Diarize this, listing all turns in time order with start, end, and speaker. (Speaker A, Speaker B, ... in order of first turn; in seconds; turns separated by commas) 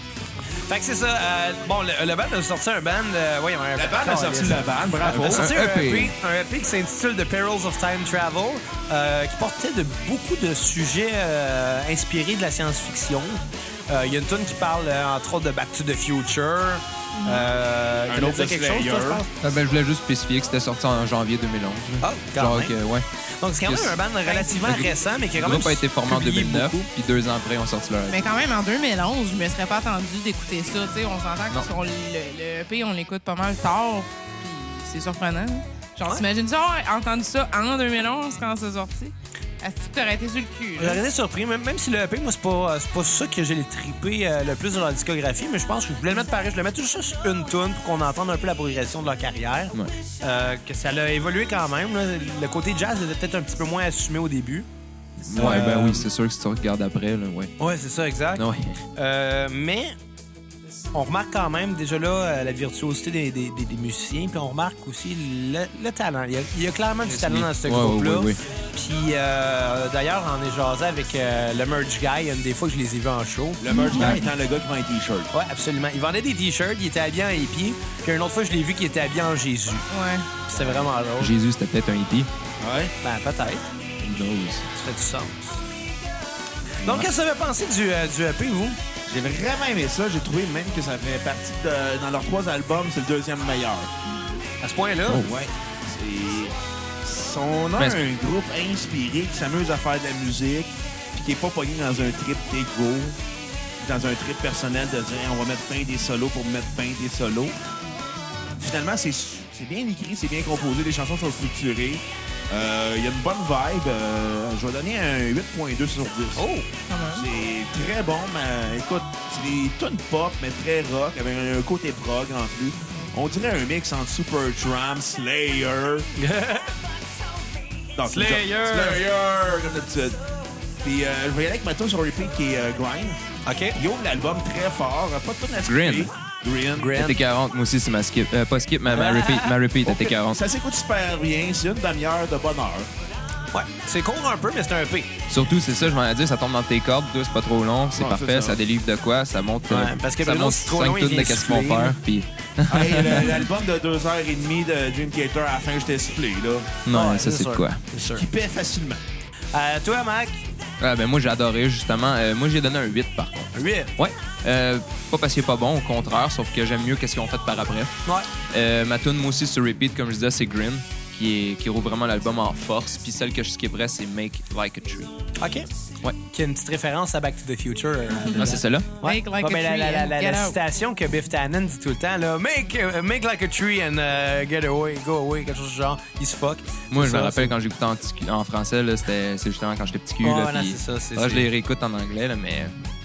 Speaker A: 0.7-19.3, Speaker B: 3.7-5.5, Speaker C: 5.1-6.1, Speaker D: 17.1-17.4, Speaker B: 18.1-19.2, Speaker C: 19.4-23.0, Speaker A: 22.0-22.8, Speaker A: 23.4-26.8, Speaker C: 23.6-24.0, Speaker D: 24.3-24.9, Speaker C: 24.6-28.3, Speaker D: 28.1-41.0, Speaker A: 40.8-54.7, Speaker C: 55.2-57.5, Speaker A: 55.3-56.1, Speaker D: 55.4-55.7, Speaker A: 57.6-58.4, Speaker C: 58.4-58.7, Speaker A: 59.0-59.9, Speaker A: 60.9-73.6, Speaker C: 67.1-68.4, Speaker B: 73.6-75.3, Speaker D: 73.7-74.2, Speaker C: 73.9-74.2, Speaker A: 75.3-79.9, Speaker D: 79.9-80.3, Speaker A: 80.5-81.3, Speaker C: 80.6-82.3, Speaker B: 82.6-82.9, Speaker A: 83.0-83.6, Speaker C: 84.0-84.6, Speaker A: 84.7-85.6, Speaker A: 86.8-88.8, Speaker B: 89.0-93.9, Speaker A: 94.6-95.2, Speaker B: 95.2-103.2, Speaker B: 103.8-107.6, Speaker B: 108.6-116.5, Speaker A: 116.3-116.7, Speaker D: 116.9-117.2, Speaker B: 117.1-126.1, Speaker A: 126.2-126.7, Speaker B: 127.9-130.2, Speaker A: 128.1-129.0, Speaker B: 130.8-133.2, Speaker A: 133.4-133.8, Speaker B: 133.7-137.0, Speaker C: 135.6-136.1, Speaker A: 136.8-137.2, Speaker C: 136.9-140.4, Speaker A: 138.9-139.6, Speaker B: 139.8-142.9, Speaker A: 143.5-145.2, Speaker C: 145.3-153.4, Speaker B: 147.9-148.6, Speaker A: 149.7-152.0, Speaker B: 152.7-156.8, Speaker C: 156.8-157.8, Speaker A: 156.9-158.2, Speaker B: 158.0-159.0, Speaker A: 159.5-160.4, Speaker C: 160.8-167.9, Speaker A: 163.5-163.9, Speaker C: 168.5-175.1, Speaker A: 175.4-175.7, Speaker A: 176.2-187.5, Speaker D: 178.2-180.6, Speaker C: 178.3-178.9, Speaker C: 186.9-192.7, Speaker A: 190.2-191.5